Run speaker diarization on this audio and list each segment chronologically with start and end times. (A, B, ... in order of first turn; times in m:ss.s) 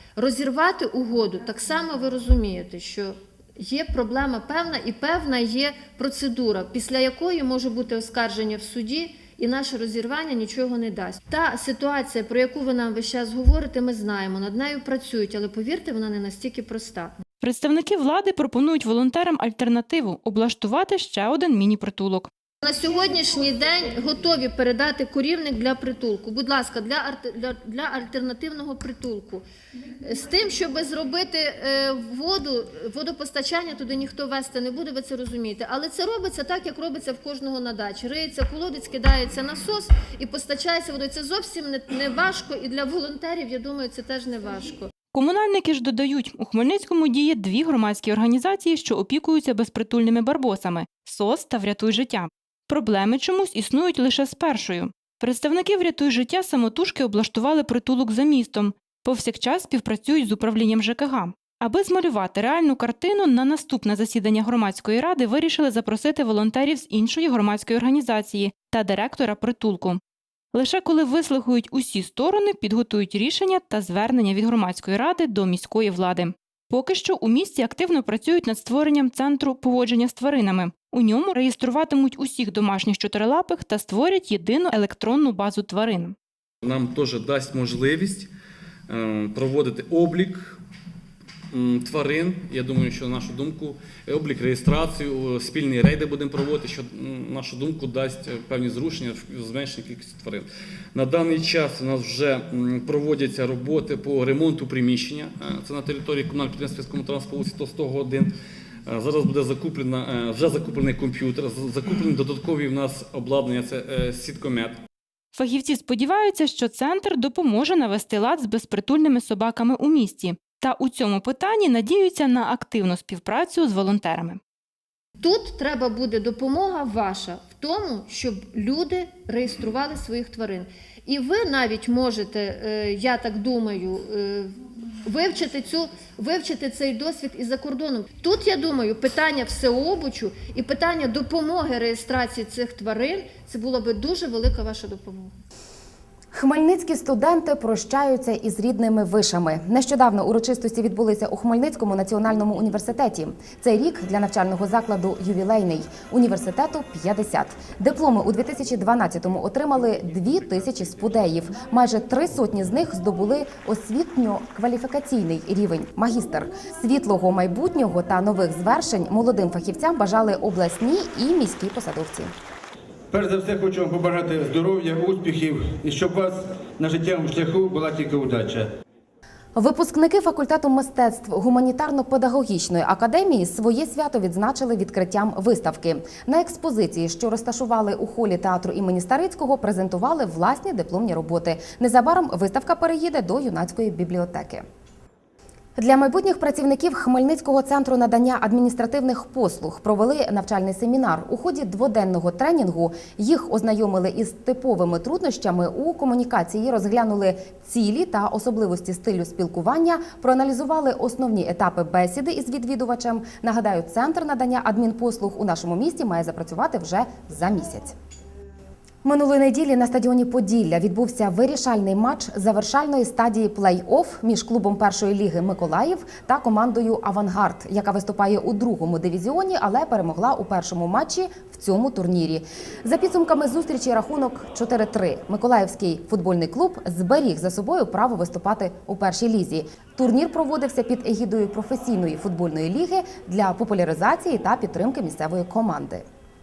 0:00.2-0:17.2 A
0:17.5-0:22.3 B
0:22.6-0:29.5 A
0:30.0-0:44.9 A
0:45.1-1:10.0 B
1:10.6-1:26.1 B
1:26.6-1:28.3 C
1:28.9-1:30.6 C
1:31.5-1:48.3 C
1:48.9-1:54.8 C
1:55.4-2:04.4 B
2:05.2-2:25.3 A
2:26.3-2:52.3 D
2:53.1-2:58.7 E
2:59.6-3:14.6 D
3:15.8-3:38.0 D
3:39.0-4:06.0 D